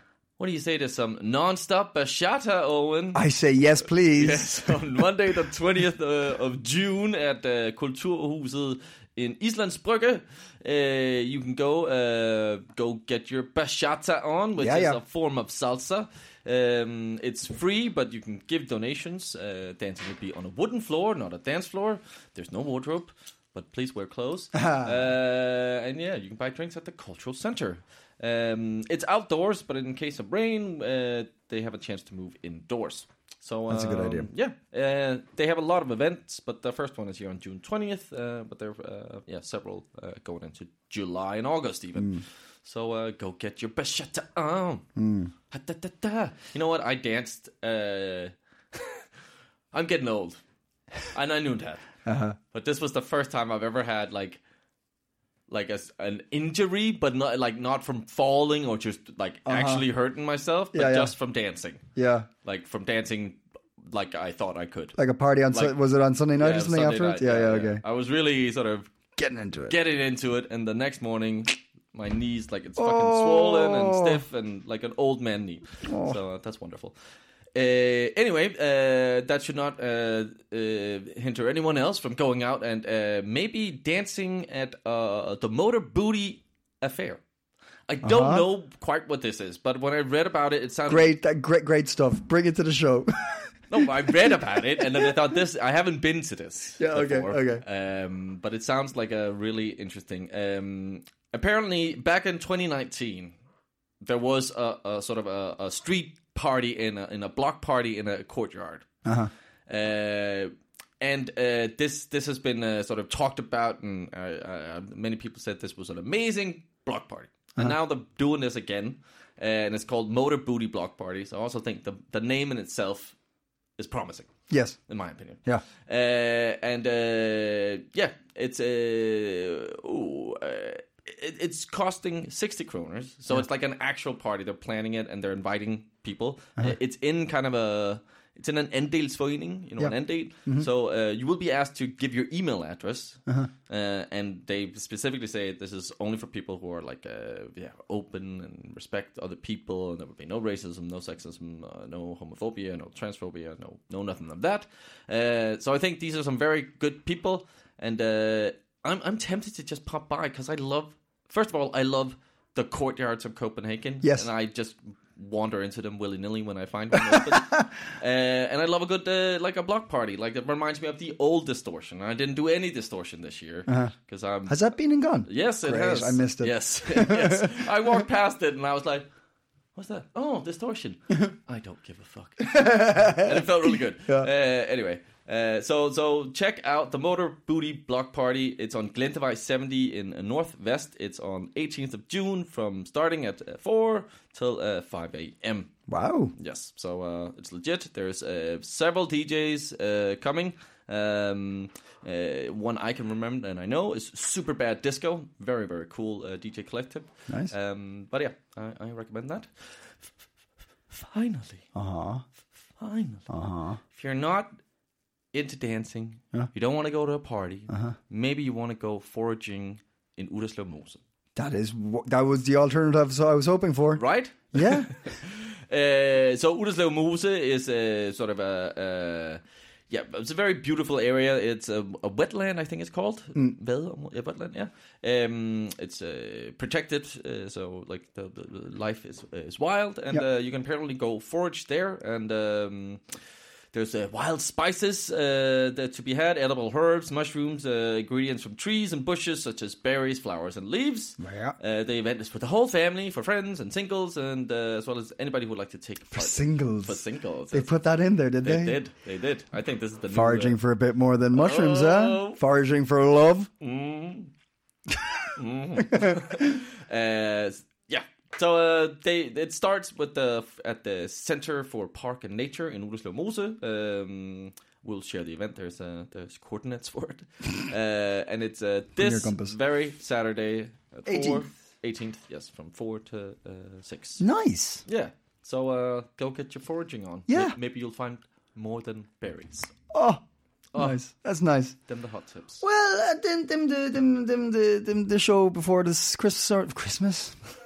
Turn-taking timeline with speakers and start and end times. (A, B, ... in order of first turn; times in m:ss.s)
0:00.4-0:03.2 A
0:03.1-0:04.8 B
0:04.1-0:44.9 A
0:14.6-0:15.0 B
0:24.5-0:25.0 B
0:33.7-0:34.3 B
0:42.0-0:42.2 B
0:45.0-0:45.3 B
0:45.5-0:49.0 A
0:49.7-0:50.4 A
0:51.1-0:51.8 A
0:52.0-0:52.4 B
0:52.5-0:54.4 A
0:55.5-1:01.8 A
0:59.5-0:59.8 B
1:00.7-1:01.1 B
1:02.0-1:02.3 B
1:02.4-1:05.0 A
1:04.9-1:07.8 B
1:06.4-1:08.9 A
1:09.2-1:09.8 B
1:09.7-1:16.9 A
1:12.8-1:14.2 B
1:15.8-1:16.2 B
1:17.5-1:27.2 A
1:27.9-1:31.1 A
1:28.0-1:28.5 B
1:30.9-1:33.5 B
1:33.7-1:43.3 A
1:34.1-1:35.2 B
1:36.8-1:37.6 B
1:44.0-1:48.9 A
1:49.0-1:49.3 B
1:49.7-2:03.2 A
2:03.8-2:04.3 A
2:04.5-2:04.8 B
2:04.9-2:54.6 A
2:44.0-2:44.3 B
2:46.9-2:47.7 B
2:53.7-2:53.9 B
2:54.5-2:57.7 B
2:55.3-2:59.1 A
2:59.7-3:15.7 A
3:02.4-3:04.3 B
3:15.9-3:16.3 B
3:16.4-3:29.5 A
3:27.3-3:27.5 B
3:30.9-3:31.6 A
3:31.7-3:32.2 B
3:32.8-3:33.3 A
3:33.3-3:33.8 B
3:33.9-3:34.5 A
3:35.3-3:41.0 A
3:37.7-3:38.0 B
3:41.4-3:44.0 B
3:44.0-4:03.0 A
3:44.5-3:44.9 B
4:03.7-4:17.7 A
4:11.2-4:11.6 B
4:16.1-4:18.8 B
4:18.4-4:20.6 A
4:20.1-4:23.5 B
4:21.3-4:22.4 A
4:23.6-4:24.3 A
4:25.4-4:44.2 A
4:25.8-4:26.5 B
4:39.0-4:39.6 B
4:41.1-4:41.4 B
4:44.2-4:44.8 B
4:44.9-4:49.7 A
4:47.3-4:47.6 B
4:49.9-4:50.2 B
4:50.7-4:51.0 A
4:50.7-4:51.8 B
4:51.9-4:52.6 A
4:52.6-4:57.4 B